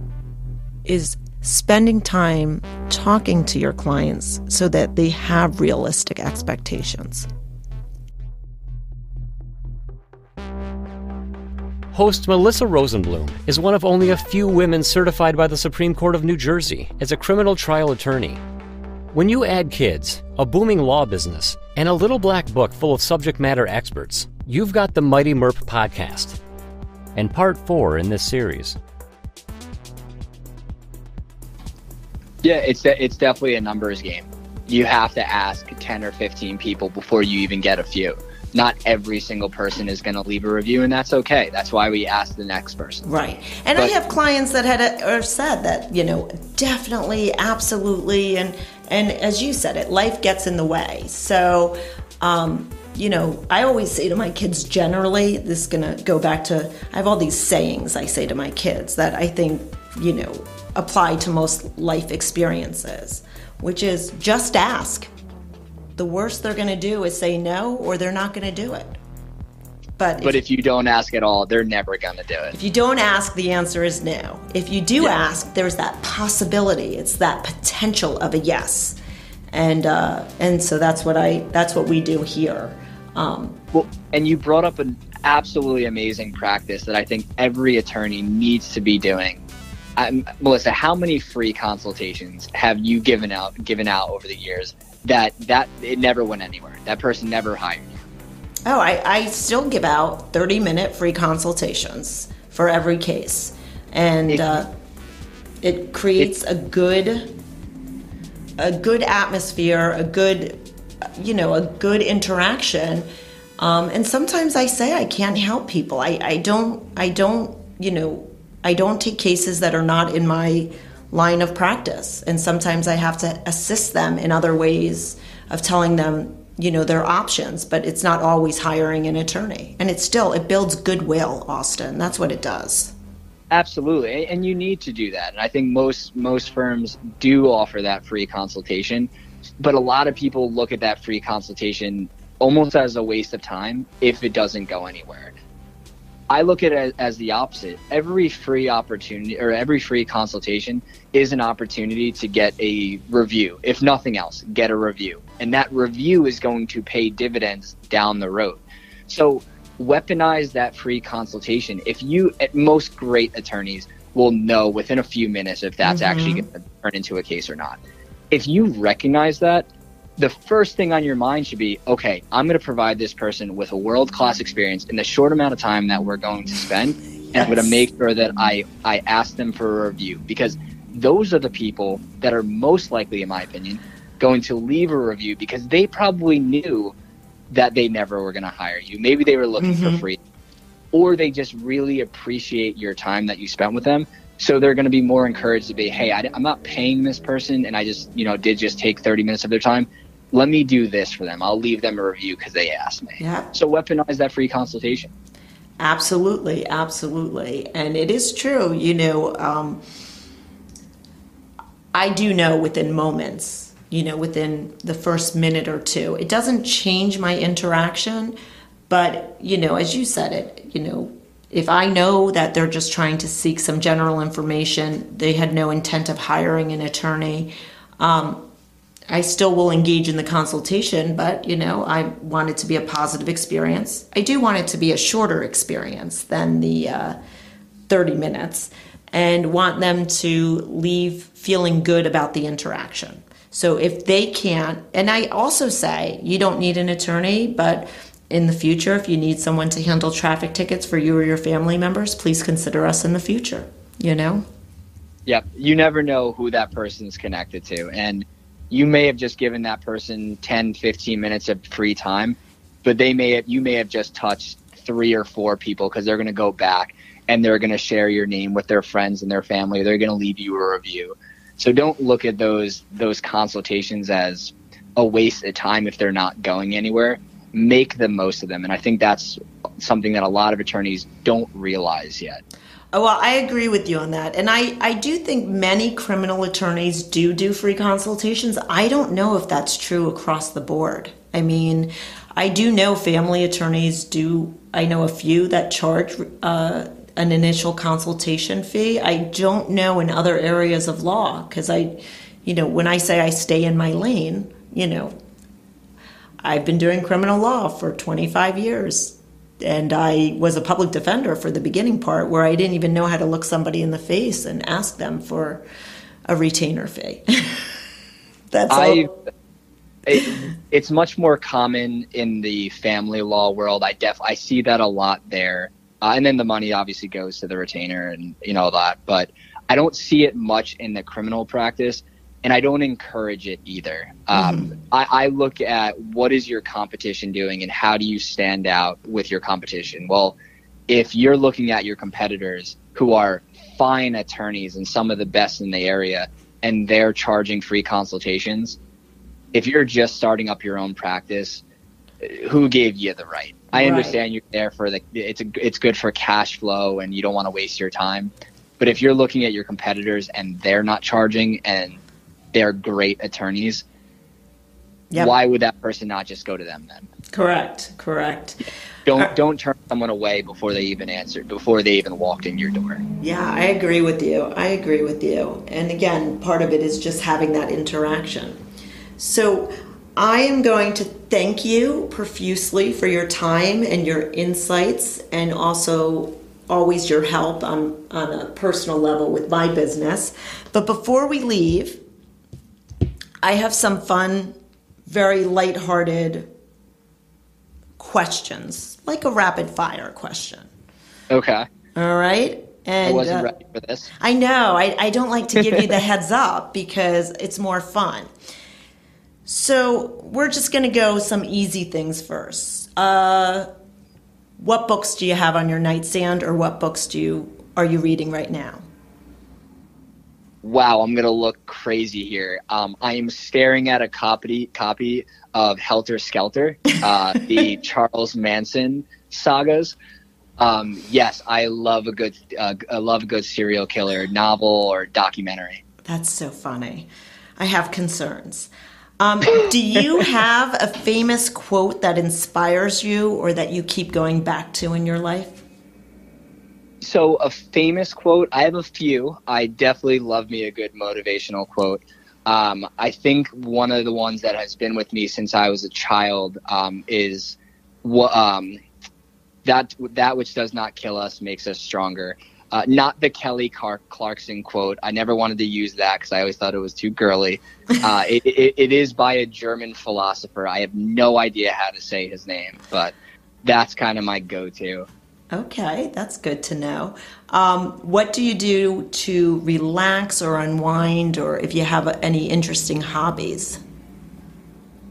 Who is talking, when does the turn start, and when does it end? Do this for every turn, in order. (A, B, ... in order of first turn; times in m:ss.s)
0:00.8-0:07.3 A
0:11.9-0:18.4 B
0:19.1-0:26.4 B
0:27.1-0:28.8 B
0:32.4-0:43.0 C
0:43.0-1:05.1 A
1:06.0-1:09.0 A
1:10.0-1:10.4 A
1:10.2-1:12.6 C
1:12.5-1:19.0 A
1:19.5-1:23.6 A
1:23.7-1:29.4 C
1:30.0-1:38.0 C
1:38.6-1:44.7 A
1:44.3-1:44.6 C
1:45.6-1:47.3 A
1:48.6-1:50.6 A
1:51.2-1:53.1 A
1:53.6-2:12.9 A
2:13.5-2:25.3 C
2:26.3-2:47.8 C
2:45.8-2:46.4 A
2:48.3-3:06.9 C
2:57.3-2:57.7 A
3:07.5-3:10.2 C
3:09.6-3:10.0 A
3:10.9-3:25.1 C
3:23.2-3:23.5 A
3:25.8-3:29.8 A
3:31.9-3:38.4 A
3:38.9-3:48.4 A
3:49.1-3:57.2 A
3:57.9-4:14.4 A
4:15.2-4:42.4 C
4:42.9-5:05.1 A
5:06.4-5:15.6 A
5:16.3-5:17.6 A
5:18.5-5:19.1 A
5:18.7-5:19.1 C
5:20.1-5:40.4 C
5:34.3-5:34.7 A
5:40.9-5:48.8 C
5:49.5-5:51.6 C
5:52.2-6:02.0 C
5:53.7-5:54.2 A
6:02.5-6:03.8 C
6:05.2-6:07.1 C
6:07.3-6:08.6 A
6:09.0-6:13.0 C
6:13.2-6:18.6 A
6:19.2-6:32.0 A
6:33.4-6:36.5 A
6:38.0-6:40.7 A
6:41.3-6:41.6 C
6:42.0-6:43.5 A
6:43.0-6:44.1 C
6:44.2-6:48.3 A
6:45.6-6:45.9 C
6:49.4-6:53.7 A
6:54.6-6:58.8 A
7:00.6-7:10.0 C
7:10.6-7:15.8 C
7:16.0-7:25.6 A
7:27.0-7:38.8 C
7:39.6-7:55.1 C
7:55.5-8:03.8 A